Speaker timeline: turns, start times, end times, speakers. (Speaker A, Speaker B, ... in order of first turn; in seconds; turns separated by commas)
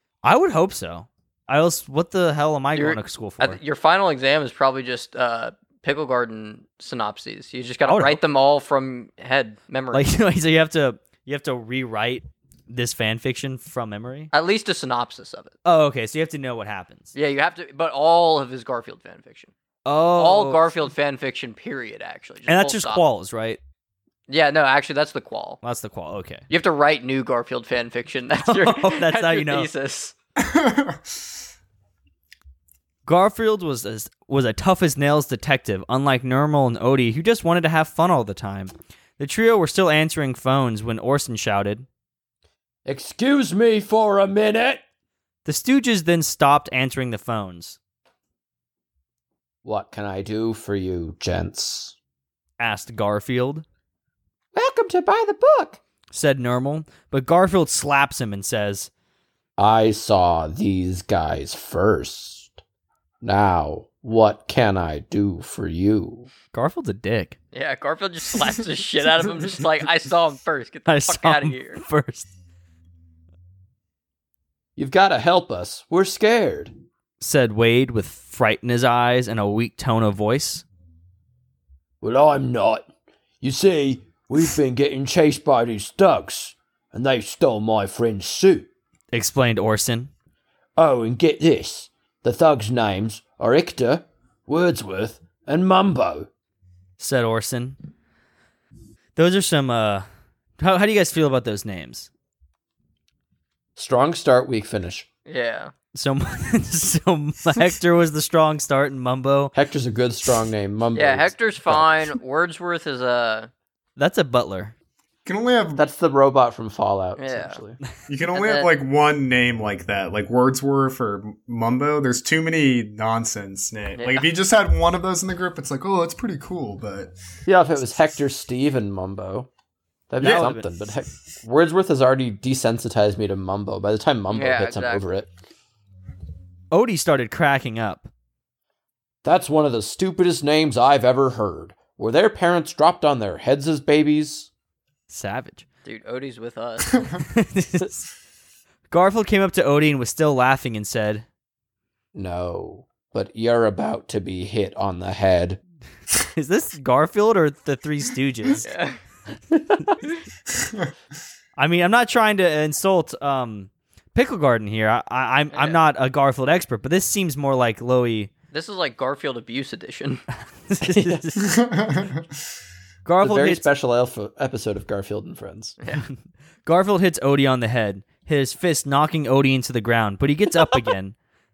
Speaker A: 0.2-3.6, Speaker B: 2.7-10.1, Speaker A: 7.9-8.2, Speaker A: 9.9-14.3, Speaker B: 14.3-15.6, Speaker A: 15.6-17.1, Speaker B: 17.1-19.5, Speaker A: 19.9-20.7, Speaker B: 20.2-23.0, Speaker A: 22.5-23.6, Speaker B: 24.3-25.6, Speaker A: 25.6-26.4, Speaker B: 26.5-30.1, Speaker A: 28.4-29.7, Speaker C: 30.4-31.1, Speaker A: 33.0-41.9, Speaker D: 42.9-44.8, Speaker A: 45.4-47.8, Speaker D: 49.6-51.9, Speaker A: 52.6-53.6, Speaker D: 54.5-55.8, Speaker A: 56.1-58.9, Speaker D: 59.6-62.6, Speaker D: 63.2-66.3, Speaker A: 66.5-67.3, Speaker B: 67.5-71.8, Speaker A: 70.9-72.3, Speaker D: 74.8-76.7, Speaker A: 77.2-80.6, Speaker D: 82.0-82.9, Speaker D: 83.4-88.7, Speaker A: 89.1-90.1, Speaker D: 90.8-96.3, Speaker A: 97.0-97.8, Speaker A: 99.2-100.0, Speaker A: 100.6-102.1, Speaker D: 103.8-105.1, Speaker B: 105.2-105.7, Speaker A: 105.9-109.5, Speaker D: 109.5-112.2, Speaker B: 110.9-113.5, Speaker A: 114.0-114.7, Speaker C: 115.2-115.8, Speaker D: 115.8-117.8, Speaker B: 117.2-117.6, Speaker C: 118.1-127.2, Speaker B: 118.3-118.7, Speaker B: 124.0-124.3, Speaker D: 127.5-129.5, Speaker D: 130.1-135.3, Speaker A: 130.2-130.7, Speaker B: 134.3-135.0, Speaker A: 136.7-138.1, Speaker D: 139.2-144.5, Speaker A: 145.1-145.6, Speaker B: 145.8-147.1, Speaker A: 147.3-148.1, Speaker A: 148.9-151.2, Speaker D: 152.1-155.6, Speaker A: 156.3-158.7, Speaker B: 158.6-159.0, Speaker A: 161.6-168.3, Speaker B: 165.5-165.8, Speaker B: 168.5-170.2, Speaker A: 170.7-171.5, Speaker C: 171.4-172.2, Speaker A: 173.0-173.6, Speaker D: 173.2-175.8, Speaker A: 176.7-181.2